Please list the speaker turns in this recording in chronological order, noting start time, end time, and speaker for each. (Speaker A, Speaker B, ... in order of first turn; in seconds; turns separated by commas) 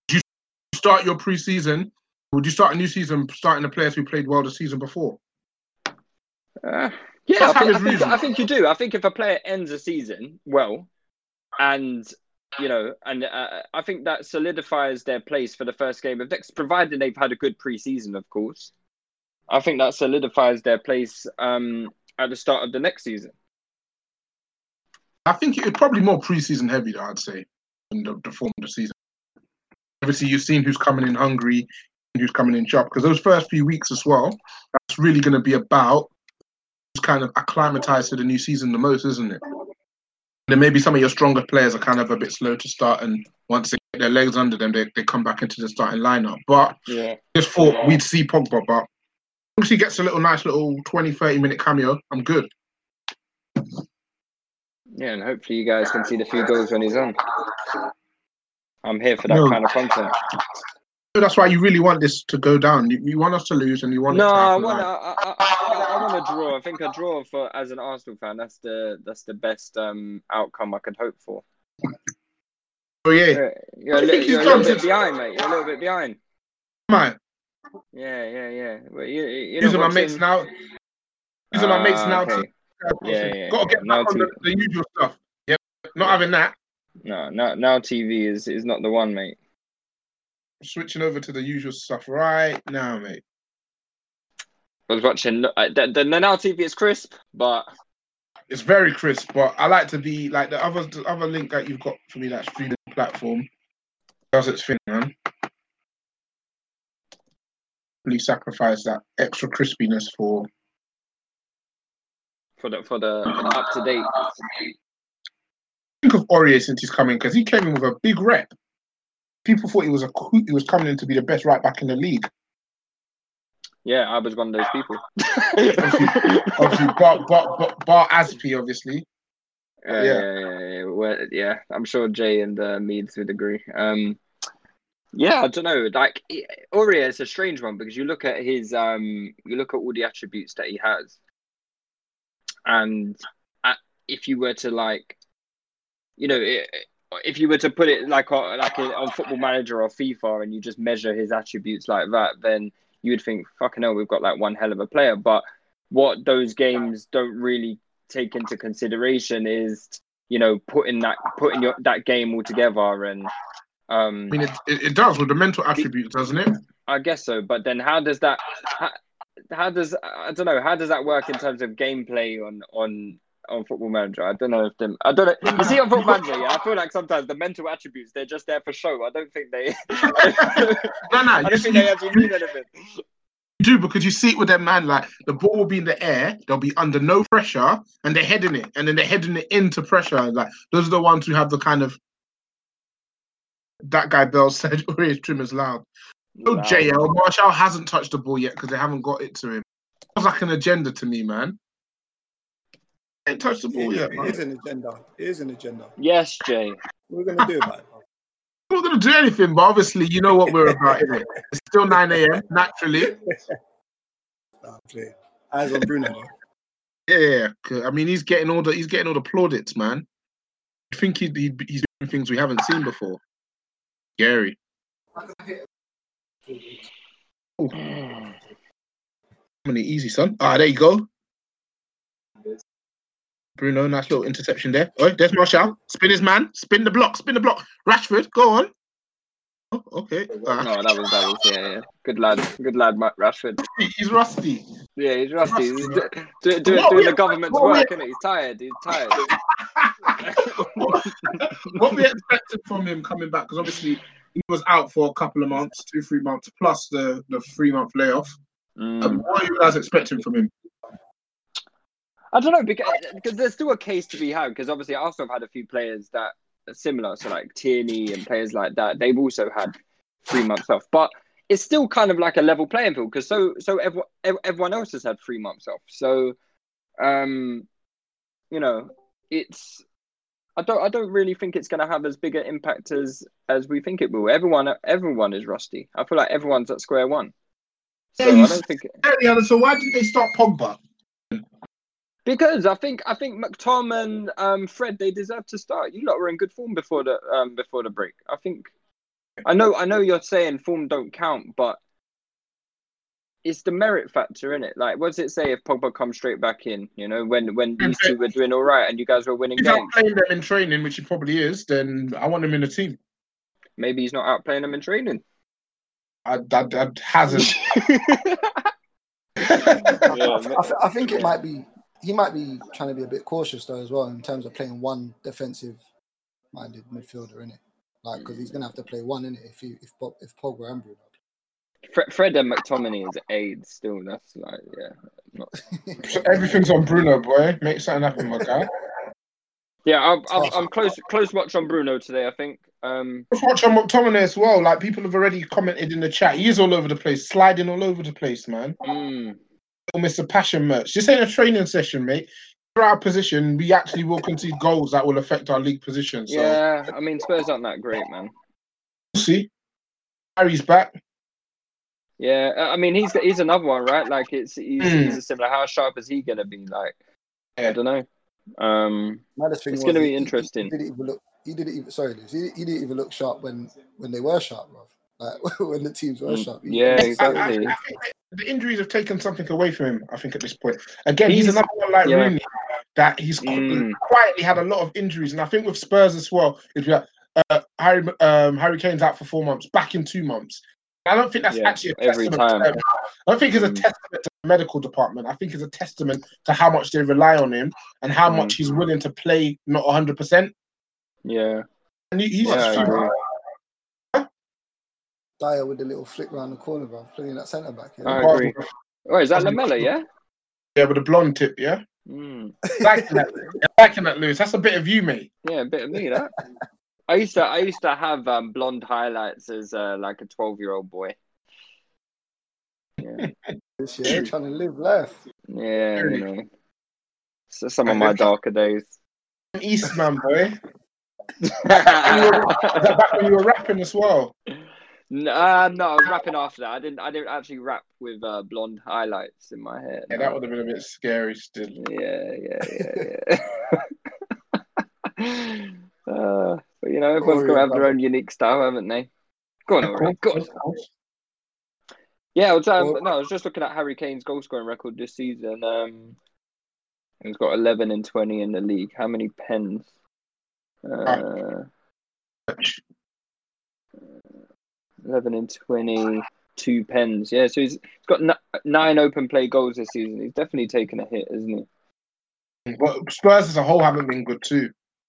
Speaker A: 0.1-5.2, Speaker B: 6.6-10.9, Speaker A: 7.4-8.2, Speaker B: 11.6-18.7, Speaker B: 19.5-23.3, Speaker A: 25.3-28.9, Speaker A: 30.0-36.1, Speaker A: 36.9-39.4, Speaker A: 40.5-46.8, Speaker B: 46.9-47.2, Speaker A: 47.3-48.9, Speaker A: 49.6-52.5, Speaker B: 55.0-57.2, Speaker B: 58.8-60.1, Speaker A: 59.3-59.6, Speaker A: 61.1-64.9, Speaker B: 64.1-71.4, Speaker A: 73.1-73.4, Speaker B: 73.3-76.2, Speaker A: 73.9-74.9, Speaker A: 76.9-77.2, Speaker B: 77.9-80.2, Speaker A: 79.6-80.5, Speaker B: 81.5-82.5, Speaker A: 81.5-86.5, Speaker B: 83.0-84.3, Speaker B: 87.0-89.4, Speaker A: 90.6-93.2, Speaker B: 94.9-97.7, Speaker A: 98.5-103.5, Speaker A: 104.3-105.1, Speaker A: 108.0-110.5, Speaker B: 112.6-114.1, Speaker A: 116.0-118.5, Speaker A: 119.5-122.3, Speaker B: 123.8-126.8, Speaker A: 125.8-129.1, Speaker B: 129.8-134.2, Speaker A: 129.9-130.3, Speaker B: 135.1-141.2, Speaker B: 142.7-145.2, Speaker B: 146.2-163.3, Speaker B: 163.9-164.4, Speaker A: 164.3-166.6, Speaker B: 166.9-168.9, Speaker B: 169.5-182.8, Speaker A: 175.4-176.3, Speaker A: 180.2-182.3, Speaker A: 183.6-192.0, Speaker A: 193.8-195.8, Speaker B: 196.3-197.1, Speaker A: 196.5-199.6, Speaker A: 200.2-201.6, Speaker A: 203.3-204.3, Speaker C: 203.7-205.9, Speaker B: 206.0-206.8, Speaker C: 207.1-207.8, Speaker A: 208.7-213.2, Speaker C: 210.7-211.0, Speaker C: 214.6-216.3, Speaker A: 217.1-220.0, Speaker A: 220.9-223.2, Speaker A: 224.2-224.6, Speaker C: 225.2-225.6, Speaker C: 226.5-226.8, Speaker A: 227.6-227.9, Speaker B: 227.8-228.3, Speaker A: 229.7-231.1, Speaker A: 233.6-238.7, Speaker A: 239.7-240.7, Speaker B: 240.6-243.6, Speaker A: 243.6-244.7, Speaker B: 245.0-249.3, Speaker A: 245.4-246.0, Speaker A: 246.7-247.9, Speaker A: 249.1-258.4, Speaker B: 250.2-251.8, Speaker B: 258.8-259.2, Speaker A: 259.0-260.5, Speaker B: 262.3-269.7, Speaker B: 270.3-276.4, Speaker B: 277.0-277.6, Speaker B: 278.5-279.8, Speaker B: 280.6-287.3, Speaker B: 288.1-289.0, Speaker A: 288.2-290.8, Speaker B: 292.2-298.7, Speaker B: 299.4-301.8, Speaker B: 303.4-309.9, Speaker A: 307.8-308.1, Speaker A: 309.6-313.0, Speaker B: 313.8-315.2, Speaker A: 316.2-317.5, Speaker B: 317.3-318.5, Speaker A: 319.4-320.1, Speaker C: 319.9-325.8, Speaker B: 320.1-321.4, Speaker C: 326.5-331.1, Speaker B: 331.9-335.5, Speaker C: 335.6-336.9, Speaker A: 336.0-338.7, Speaker B: 339.9-343.3, Speaker C: 340.3-340.7, Speaker A: 343.3-348.8, Speaker B: 348.8-349.4, Speaker A: 349.9-356.6, Speaker B: 356.3-358.3, Speaker A: 359.1-359.5, Speaker A: 360.4-360.9, Speaker B: 362.2-366.9, Speaker A: 364.8-365.2, Speaker B: 367.6-368.1, Speaker B: 368.6-370.7, Speaker C: 369.4-377.8, Speaker B: 376.3-377.8, Speaker A: 376.9-400.5, Speaker B: 381.2-382.3, Speaker B: 383.4-384.0, Speaker B: 391.5-392.7, Speaker B: 393.5-393.9, Speaker B: 398.3-398.6, Speaker B: 401.2-401.6, Speaker A: 402.1-403.1, Speaker B: 402.4-403.1, Speaker C: 405.4-408.4, Speaker B: 408.0-408.5, Speaker A: 408.1-408.7, Speaker B: 409.1-410.0, Speaker A: 409.3-409.9, Speaker A: 410.8-411.8, Speaker B: 412.1-412.6, Speaker A: 412.8-415.3, Speaker C: 412.8-413.2, Speaker B: 415.4-416.3, Speaker B: 417.1-421.1, Speaker C: 423.8-425.2, Speaker B: 425.5-426.5, Speaker A: 426.0-426.2, Speaker B: 427.5-428.9, Speaker A: 427.9-428.3, Speaker A: 429.5-430.6, Speaker B: 431.5-432.9, Speaker A: 431.6-434.3, Speaker B: 435.1-440.4, Speaker A: 440.1-441.8, Speaker B: 441.8-443.8, Speaker B: 445.2-449.1, Speaker C: 447.2-448.0, Speaker B: 449.7-450.5, Speaker A: 449.8-450.8, Speaker B: 452.4-456.1, Speaker B: 457.2-459.9, Speaker B: 460.9-461.6, Speaker A: 462.5-462.8, Speaker B: 465.0-471.7, Speaker A: 472.7-474.7